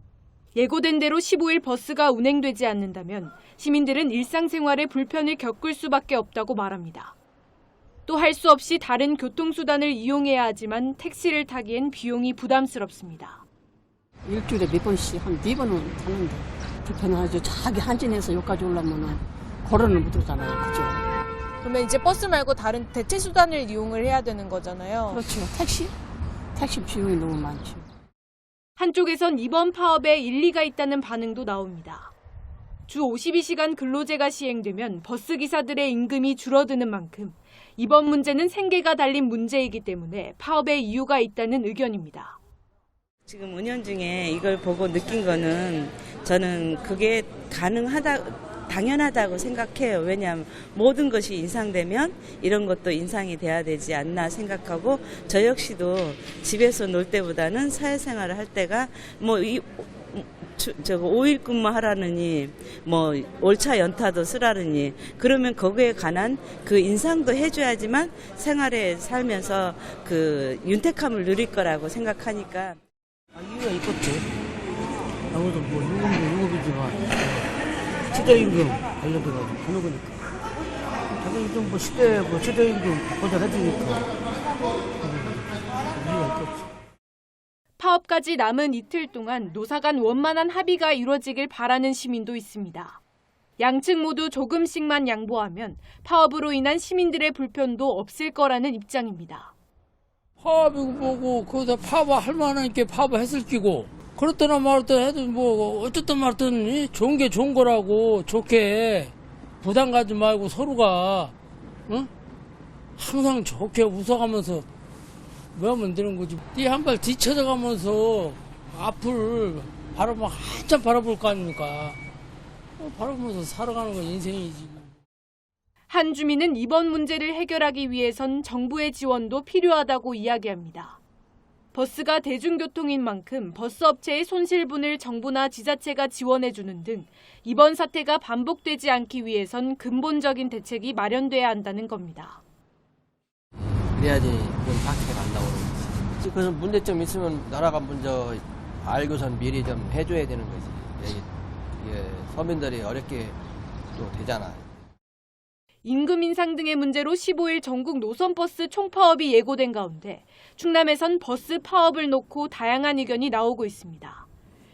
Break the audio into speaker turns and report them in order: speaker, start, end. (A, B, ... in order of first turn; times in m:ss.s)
0:00.5-0:07.1 A
0:08.0-0:13.4 A
0:14.3-0:21.0 B
0:21.6-0:25.2 C
0:25.1-0:25.9 B
0:26.5-0:27.8 B
0:28.8-0:32.1 A
0:32.9-0:42.4 A
0:43.2-1:12.8 D
1:13.3-1:14.2 E
1:15.3-1:17.5 E
1:18.1-1:20.2 E
1:21.1-1:24.1 E
1:25.0-1:26.7 E
1:27.8-1:33.0 A
1:33.6-1:39.5 A
1:40.4-1:51.3 F
1:53.0-1:54.6 F
1:55.5-2:02.0 F
2:02.8-2:04.9 F
2:05.9-2:11.0 A
2:11.7-2:22.4 A
2:23.9-2:33.4 G
2:33.9-2:34.6 G
2:35.8-2:44.2 A